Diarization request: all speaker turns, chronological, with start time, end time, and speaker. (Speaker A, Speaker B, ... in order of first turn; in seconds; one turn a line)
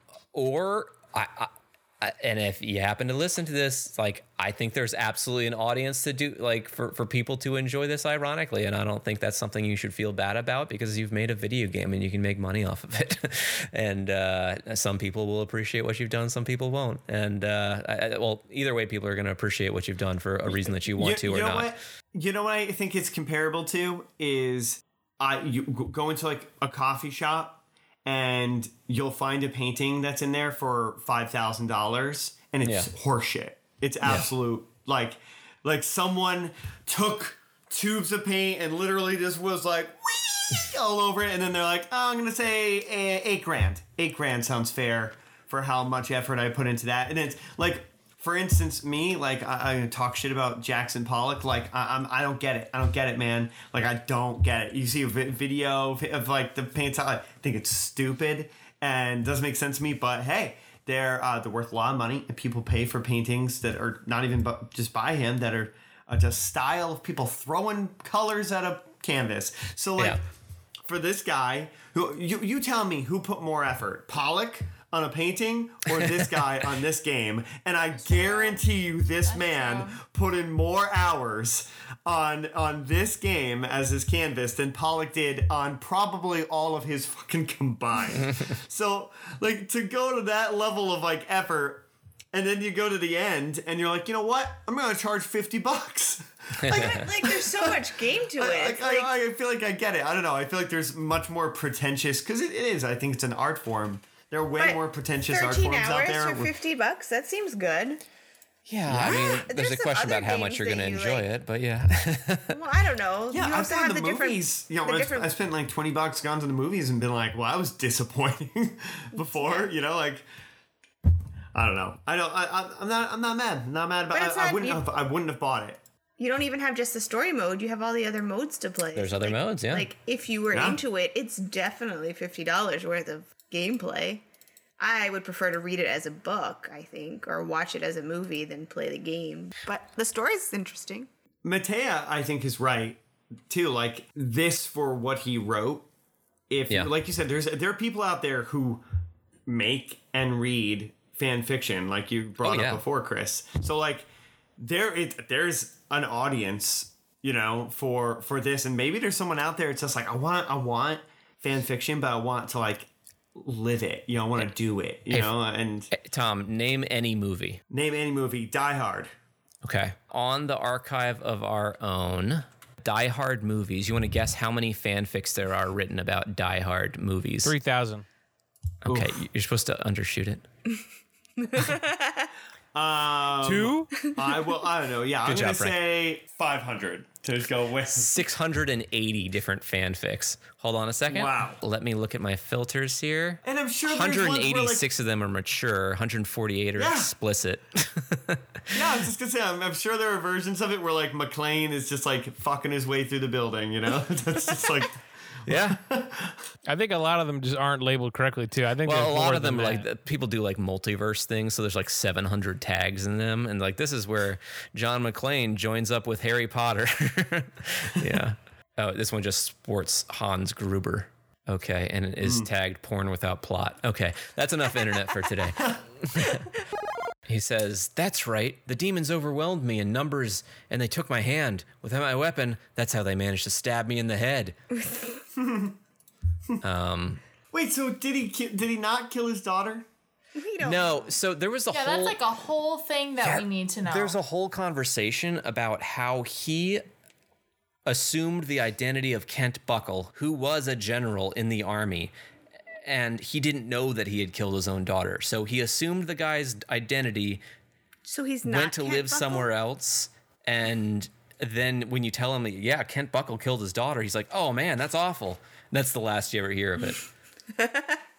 Speaker A: 0.3-21.7
Speaker B: 20.5-70.2
Speaker A: 32.6-32.9
Speaker B: 70.8-106.5
Speaker A: 75.9-76.4
Speaker C: 77.9-78.6
Speaker C: 79.2-80.0
Speaker A: 96.6-97.0
Speaker D: 96.7-99.1
Speaker D: 104.5-108.0
Speaker A: 108.7-112.6
Speaker B: 108.9-109.2
Speaker D: 109.0-111.2
Speaker D: 112.5-115.3
Speaker B: 113.3-120.2
Speaker D: 119.2-119.7
Speaker B: 121.5-125.8
Speaker D: 124.1-124.8
Speaker D: 126.2-134.2
Speaker A: 128.9-129.9
Speaker B: 130.5-130.8
Speaker D: 134.8-141.1
Speaker B: 141.4-145.8
Speaker B: 146.5-148.8
Speaker B: 149.5-154.1
Speaker A: 152.4-152.8
Speaker B: 154.6-165.9
Speaker A: 165.9-167.6
Speaker B: 167.7-169.1
Speaker A: 169.6-177.6
Speaker E: 177.4-178.0
Speaker A: 178.8-180.4
Speaker D: 181.4-182.3
Speaker B: 182.7-188.2
Speaker E: 183.4-183.9
Speaker A: 185.2-185.8
Speaker A: 187.9-198.9
Speaker B: 191.1-191.6
Speaker B: 193.4-194.9
Speaker B: 196.8-197.1
Speaker B: 198.7-206.4
Speaker A: 205.5-205.8
Speaker E: 206.7-209.8
Speaker A: 208.8-226.5
Speaker B: 222.2-222.5
Speaker A: 227.3-234.6
Speaker B: 235.3-235.7
Speaker A: 236.6-237.2
Speaker B: 237.5-239.8
Speaker D: 240.3-241.1
Speaker A: 240.6-242.2
Speaker C: 241.7-244.2
Speaker A: 243.2-246.8
Speaker A: 247.8-252.1
Speaker A: 252.8-257.4
Speaker D: 258.1-259.5
Speaker A: 258.4-267.0
Speaker D: 267.5-268.0